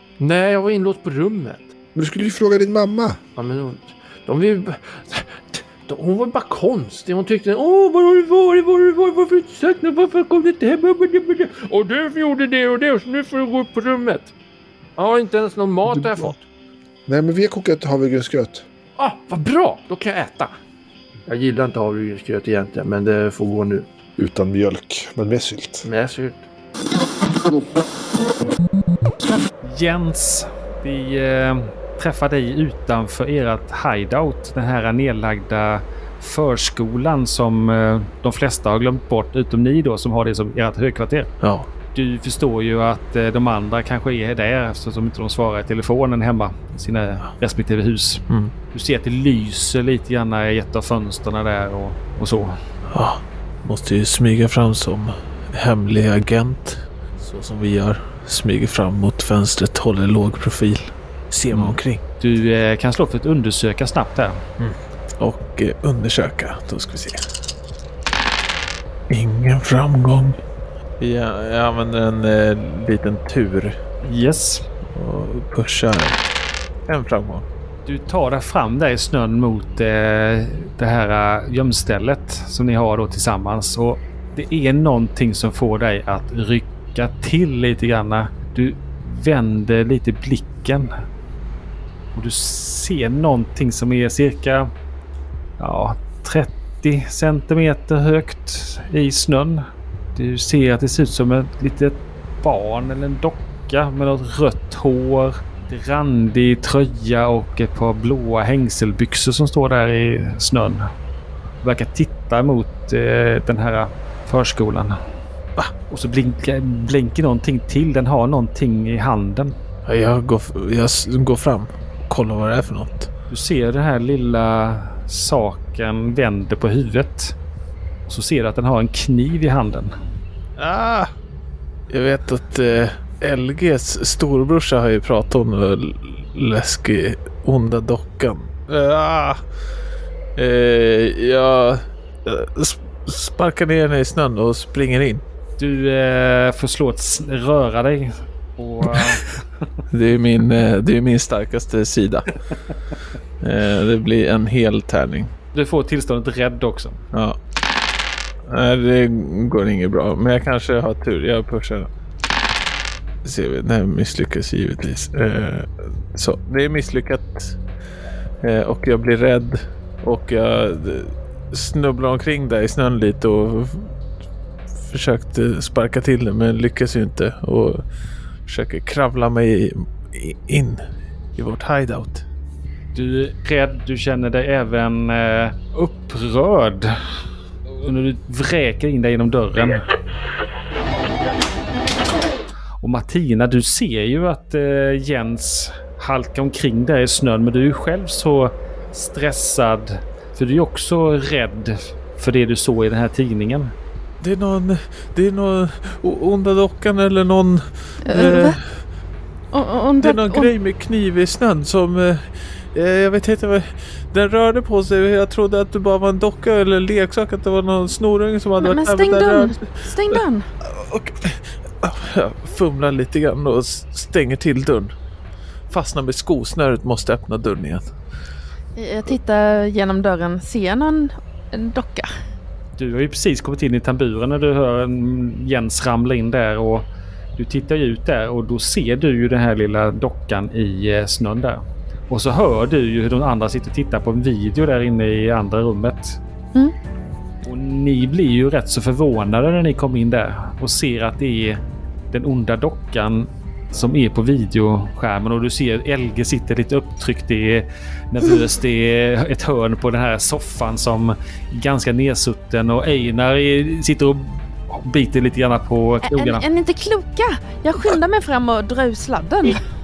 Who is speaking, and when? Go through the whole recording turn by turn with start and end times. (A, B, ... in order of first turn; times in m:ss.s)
0:00.2-0:01.7 A
0:02.0-0:03.2 B
0:03.4-0:14.3 A
0:15.0-0:16.4 A
0:15.9-0:16.3 B
0:17.1-0:18.6 B
0:19.0-0:20.5 A
0:21.3-0:23.9 A
0:24.2-0:25.9 B
0:25.8-0:26.4 A
0:29.6-0:41.3 C
0:41.4-0:41.7 D
0:42.0-0:52.6 C
0:52.9-1:02.0 D
1:01.5-1:04.4 C
1:04.6-1:07.2 D
1:09.1-1:10.4 D
1:11.0-1:13.8 D
1:14.0-1:14.6 C
1:14.9-1:16.2 D
1:16.9-1:17.5 D
1:17.9-1:30.9 C
1:32.1-1:34.7 C
1:35.6-1:50.9 C
1:51.6-1:55.0 C
1:55.9-1:59.6 C
1:59.9-2:03.1 D
2:03.3-2:07.4 C
2:08.1-2:09.9 C
2:10.6-2:11.1 D
2:11.9-2:19.4 D
2:20.4-2:25.2 D
2:25.6-2:29.4 C
2:29.9-2:32.3 D
2:33.4-2:35.3 D
2:35.5-2:37.0 C
2:37.1-2:37.4 D
2:38.5-2:41.9 D
2:43.2-2:47.6 D
2:48.4-2:53.9 D
2:54.9-2:57.8 D
2:58.5-3:00.8 D
3:01.4-3:02.2 D
3:03.0-3:07.0 C
3:07.7-3:09.8 C
3:12.8-3:23.7 C
3:24.2-3:28.6 D
3:28.0-3:28.6 E
3:29.5-3:30.5 E
3:30.0-3:44.9 D
3:38.6-3:40.5 E
3:45.7-3:47.9 D
3:48.8-3:52.1 E
3:52.8-4:06.2 C
4:07.4-4:11.6 C
4:12.1-4:26.4 C
4:26.0-4:29.6 E